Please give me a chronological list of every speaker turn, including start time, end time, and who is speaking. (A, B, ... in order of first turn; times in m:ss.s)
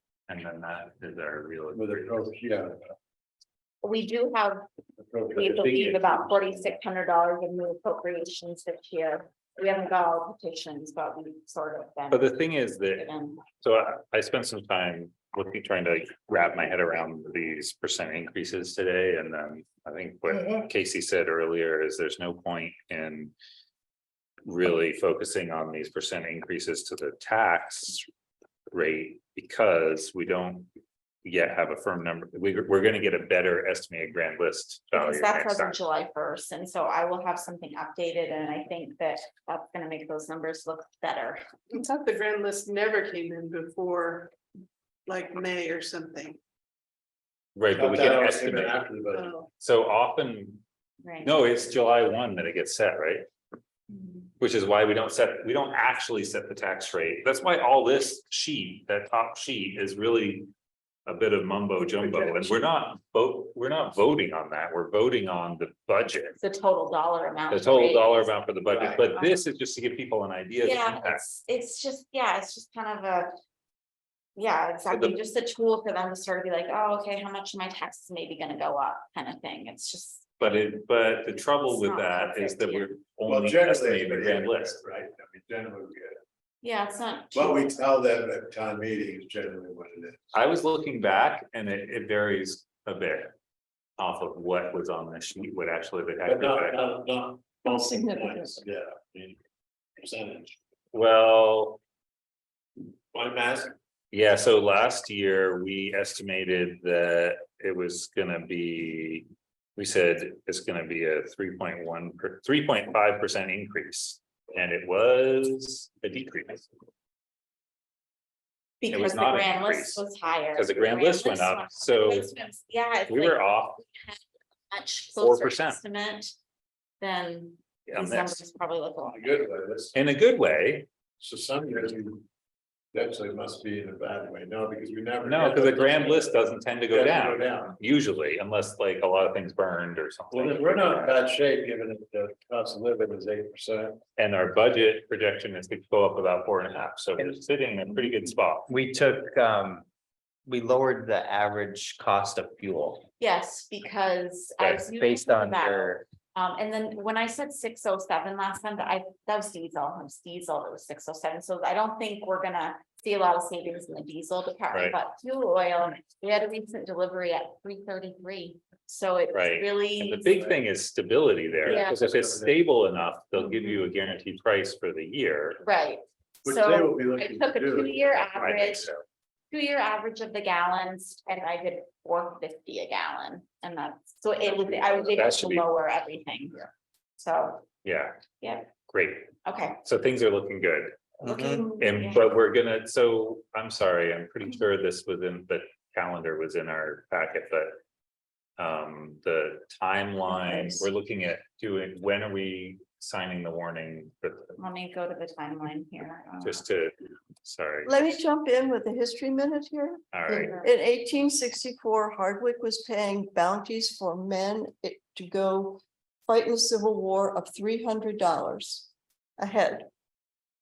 0:00.3-0:02.3 A
0:01.7-0:02.8 B
0:03.8-0:04.7 C
0:05.0-0:05.7 B
0:05.3-0:13.4 C
0:05.4-0:06.3 A
0:12.1-0:13.1 A
0:13.6-0:23.3 A
0:24.4-0:28.1 A
0:28.7-0:30.7 A
0:31.2-0:35.8 A
0:34.9-0:41.4 C
0:41.7-0:44.3 D
0:45.1-0:46.4 D
0:47.6-0:48.8 A
0:47.7-0:49.3 B
0:49.1-0:49.5 D
0:49.6-0:50.6 A
0:51.0-0:51.3 C
0:51.2-0:53.3 A
0:54.4-1:00.5 A
1:01.0-1:06.4 A
1:06.4-1:08.4 C
1:07.5-1:11.2 A
1:09.0-1:09.4 C
1:10.6-1:13.3 C
1:14.4-1:20.3 C
1:14.9-1:15.2 A
1:20.4-1:24.8 A
1:21.7-1:22.9 C
1:23.2-1:26.2 B
1:26.6-1:27.7 C
1:27.3-1:30.3 B
1:30.3-1:33.3 A
1:34.0-1:36.8 A
1:36.2-1:39.4 B
1:37.6-1:38.6 E
1:40.0-1:40.6 B
1:40.9-1:41.8 A
1:43.1-1:43.7 B
1:44.1-1:49.2 A
1:49.8-1:56.7 A
1:58.8-2:06.3 C
1:58.9-2:02.3 A
2:03.1-2:03.8 A
2:05.2-2:05.8 A
2:07.0-2:09.4 C
2:07.9-2:08.4 A
2:09.1-2:09.9 B
2:09.9-2:10.9 A
2:11.2-2:12.2 B
2:12.9-2:17.8 B
2:15.2-2:21.2 A
2:20.3-2:24.0 B
2:24.2-2:28.7 A
2:28.7-2:29.8 F
2:30.4-2:33.1 F
2:33.2-2:50.5 C
2:34.8-2:36.0 F
2:44.7-2:45.0 A
2:49.3-2:55.6 A
2:51.6-2:52.6 B
2:51.6-2:52.0 C
2:53.4-2:53.9 C
2:55.6-2:58.9 C
2:56.4-2:58.9 B
2:58.3-2:58.8 A
2:59.5-3:06.6 C
3:04.7-3:05.6 A
3:07.2-3:07.6 C
3:07.8-3:08.2 A
3:08.4-3:08.7 C
3:08.9-3:09.3 A
3:09.4-3:09.8 C
3:09.8-3:17.8 A
3:11.2-3:11.9 E
3:11.2-3:11.6 F
3:11.9-3:12.3 C
3:18.6-3:24.5 A
3:20.4-3:20.8 E
3:24.6-3:26.6 C
3:26.4-3:28.2 A
3:27.8-3:39.9 E
3:30.1-3:30.6 A
3:30.3-3:30.7 C